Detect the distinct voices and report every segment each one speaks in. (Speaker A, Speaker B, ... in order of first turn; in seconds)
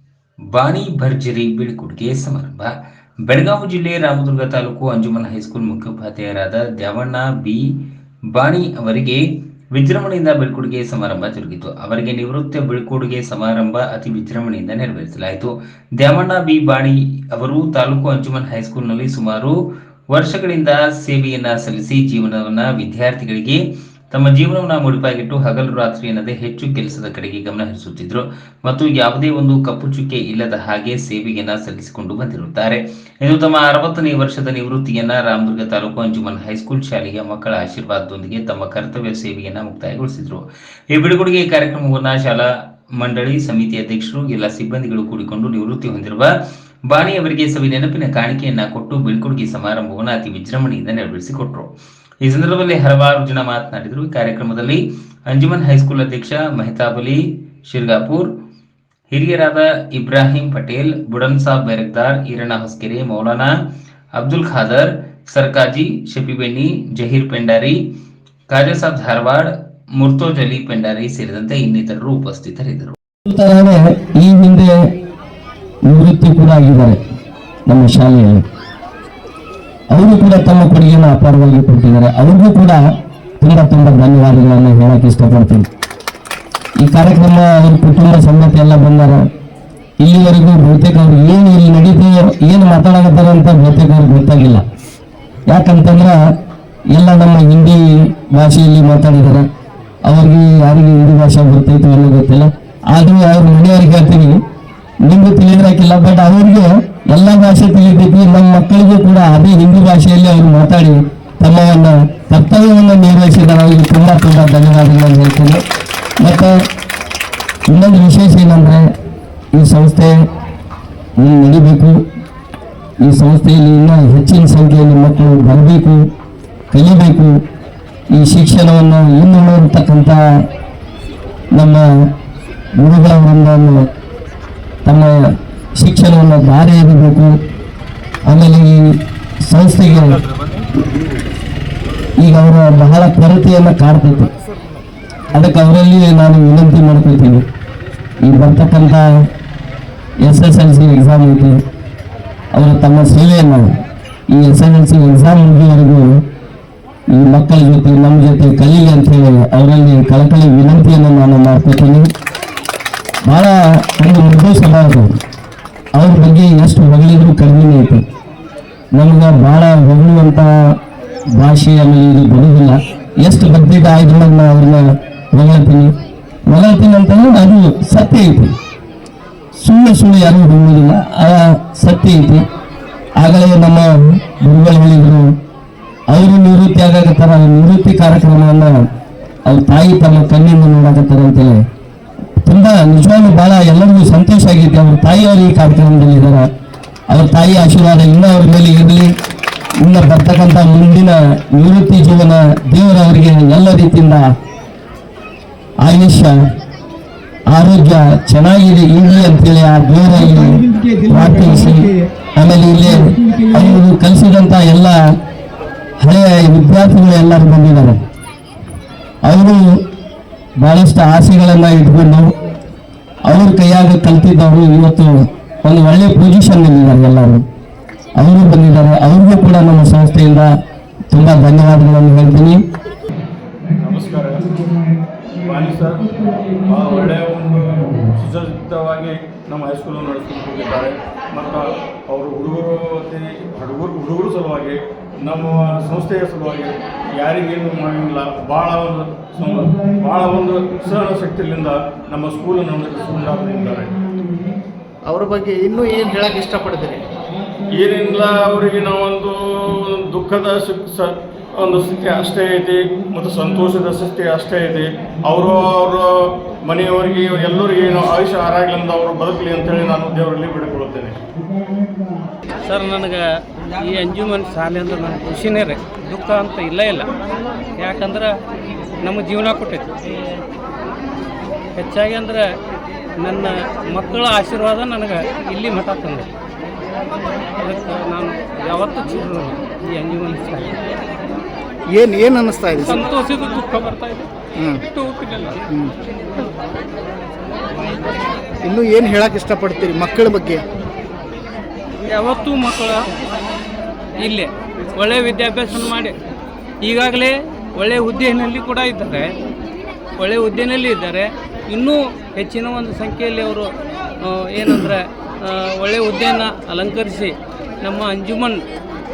Speaker A: 0.5-2.7, 3.3-7.8, 8.3-19.6, 20.1-23.6, 24.1-46.3, 46.9-58.3, 59.1-63.5, 64.1-67.8, 68.5-73.0
Speaker B: 73.3-74.7, 75.9-77.0, 77.7-78.4, 79.9-82.8, 83.4-85.7, 86.8-89.2, 90.0-94.6, 95.5-96.2, 96.9-99.5, 100.1-104.4, 105.0-115.6, 116.2-116.5, 117.7-118.8, 119.5-120.1, 121.2-122.0, 123.0-126.0, 126.7-127.3, 128.1-130.2, 131.6-131.8, 132.8-133.8, 134.8-135.2, 135.8-137.3, 138.3-138.8, 139.5-140.2, 142.2-144.3, 145.3-147.4, 148.2-149.1, 150.2-151.6, 152.6-153.7, 154.3-156.1, 157.1-162.1, 163.3-165.2, 166.0-168.0, 168.9-170.5, 171.4-174.8, 175.3-175.9, 176.5-178.5, 179.6-182.4, 183.2-185.3, 186.1-188.7, 189.5-191.6, 192.4-196.5, 197.1-199.1, 199.8-204.2, 205.8-206.3, 207.5-215.0, 216.0-218.0, 219.2-219.6, 220.6-222.3, 223.3-227.4, 228.2-230.5, 231.1-232.6
Speaker C: 140.3-140.6, 233.8-234.6, 235.4-253.9, 257.7-271.2
Speaker D: 210.3-211.8, 213.0-213.7, 255.1-257.1, 291.9-293.0, 294.6-294.8, 298.6-300.6
Speaker E: 272.6-273.2, 273.8-277.1, 277.8-278.3, 279.0-279.9, 281.8-282.5, 283.2-286.3, 287.6-290.7, 292.8-294.3, 294.9-295.6, 302.1-303.0, 304.2-306.1, 306.8-309.3, 310.2-313.7, 314.2-318.6